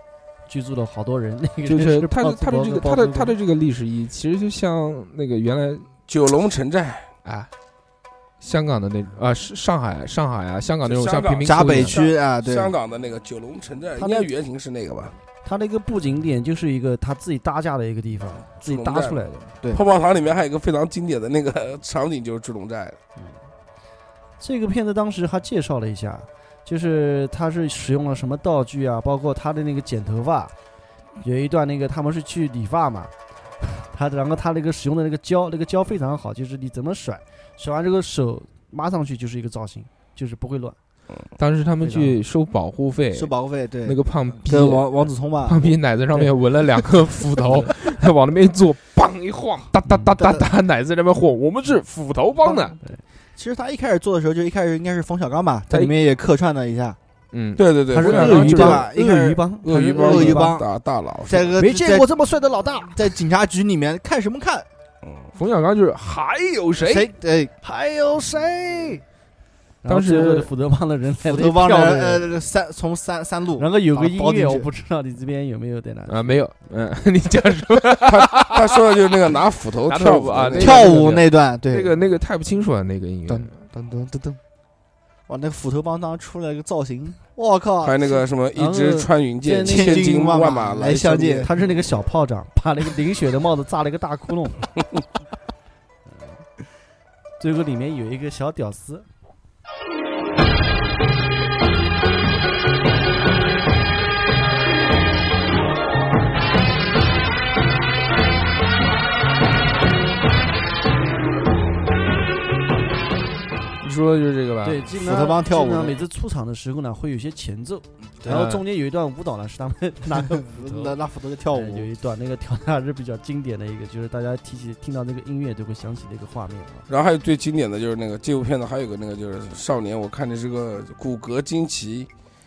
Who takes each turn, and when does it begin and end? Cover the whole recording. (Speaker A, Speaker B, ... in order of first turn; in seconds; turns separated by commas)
Speaker A: 0.5-3.3, Speaker B: 1.6-5.9, Speaker C: 6.1-7.1, Speaker B: 7.2-7.5, Speaker B: 8.4-12.0, Speaker C: 10.8-15.1, Speaker D: 11.4-12.7, Speaker A: 14.0-14.3, Speaker A: 15.4-19.5, Speaker C: 18.6-23.0, Speaker A: 24.4-30.5, Speaker A: 31.2-40.8, Speaker B: 41.4-52.8, Speaker A: 41.8-42.1, Speaker D: 43.1-45.8, Speaker A: 49.9-50.1, Speaker D: 53.4-57.0, Speaker B: 57.3-58.9, Speaker C: 57.6-58.4, Speaker A: 57.9-60.5, Speaker D: 58.1-59.4, Speaker C: 59.6-61.5, Speaker D: 60.0-60.6, Speaker D: 61.3-62.1, Speaker A: 61.6-63.0, Speaker D: 62.9-64.7, Speaker C: 65.0-65.3, Speaker B: 65.3-67.1, Speaker D: 66.8-67.5, Speaker A: 67.6-69.0, Speaker A: 69.8-72.3, Speaker B: 69.8-70.5, Speaker D: 71.2-74.7, Speaker A: 73.6-76.4, Speaker B: 76.1-79.0, Speaker C: 78.1-80.9, Speaker B: 79.8-83.6, Speaker D: 80.5-81.9, Speaker D: 83.3-84.4, Speaker D: 85.3-88.2, Speaker C: 87.8-91.4, Speaker A: 88.5-90.1, Speaker D: 89.6-91.5, Speaker A: 91.0-94.7, Speaker A: 96.0-96.4, Speaker A: 97.4-99.1, Speaker B: 113.8-114.8, Speaker A: 114.6-121.0, Speaker D: 115.0-116.0, Speaker B: 118.3-118.6, Speaker D: 120.4-121.9, Speaker A: 121.5-126.8, Speaker C: 126.9-132.1